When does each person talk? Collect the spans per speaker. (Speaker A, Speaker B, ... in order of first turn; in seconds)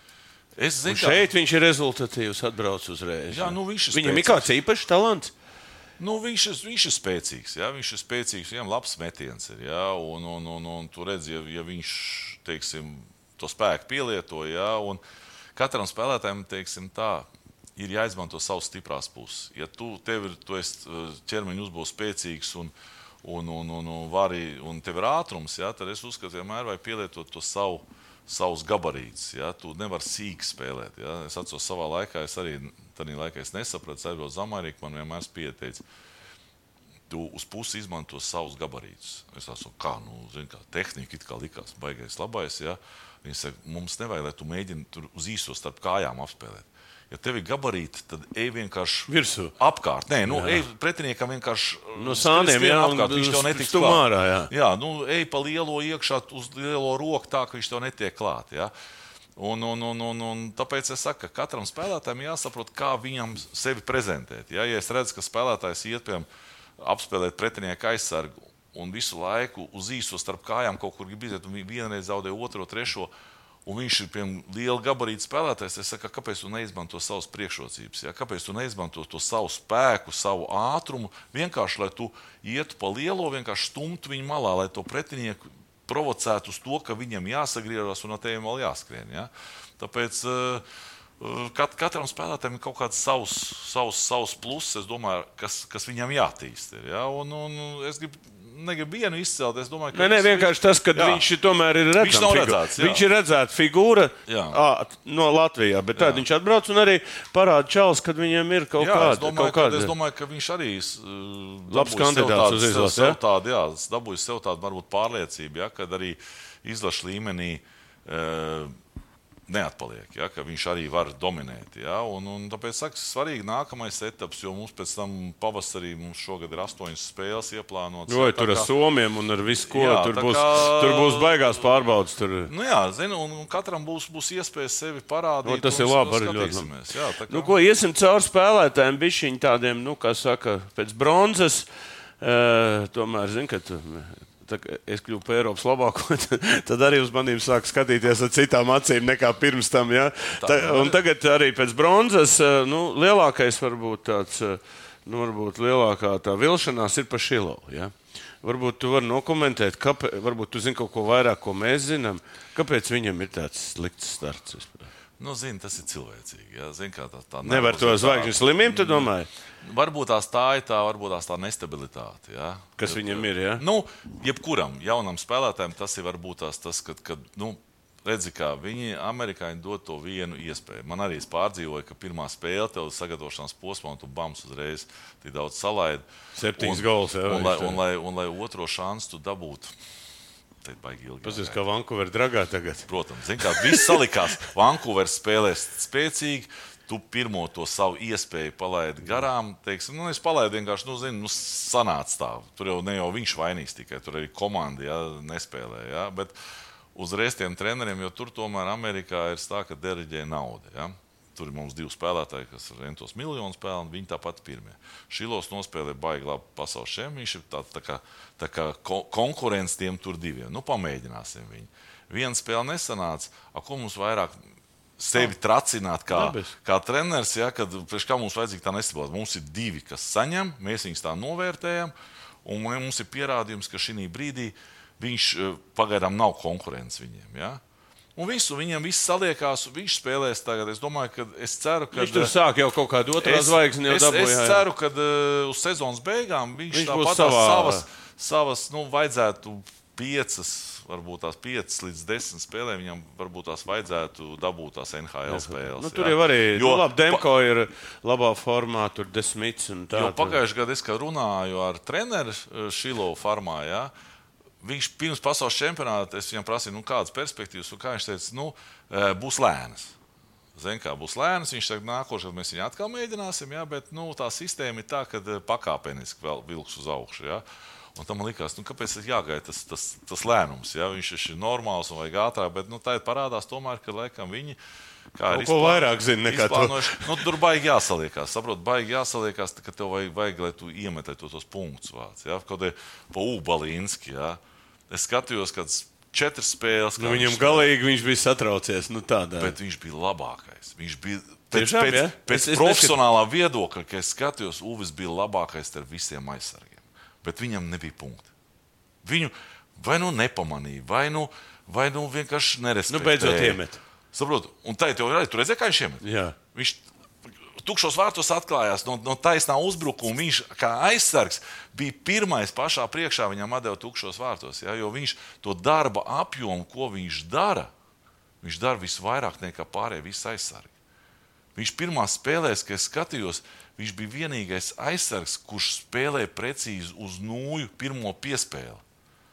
Speaker A: 0.6-1.2, 3.3-4.5, 6.0-15.0, 15.6-22.7, 23.2-35.8, 37.1-58.7, 59.4-66.3, 66.8-73.1, 73.7-90.6, 91.2-101.2, 102.0-103.0, 104.3-104.6, 106.0-106.2, 108.8-118.7, 119.5-128.7, 129.7-131.8, 132.5-137.5, 150.4-151.0, 165.2-169.1, 169.6-186.0, 186.6-189.7, 190.6-191.6, 192.9-206.3, 206.9-224.4, 225.0-231.9, 232.4-237.6, 238.2-242.3, 243.2-257.2, 259.9-263.9, 264.6-269.9, 270.6-277.4, 277.9-284.6, 285.1-297.7, 299.4-308.3, 309.0-313.6, 314.1-316.8, 317.6-327.7, 328.4-330.7, 331.6-338.8
Speaker B: 0.9-5.3, 49.1-49.5, 50.3-50.6, 52.0-54.5, 99.9-109.9, 111.7-113.2, 128.1-132.5, 135.4-136.7, 137.3-141.7, 142.2-164.9, 167.4-169.3, 172.8-173.6, 186.3-187.8, 191.2-192.9, 193.5-193.9, 226.1-226.5, 241.9-244.6, 246.7-247.8, 255.3-260.4, 285.3-287.2, 297.0-299.5, 301.5-302.9, 312.9-313.8, 316.0-316.3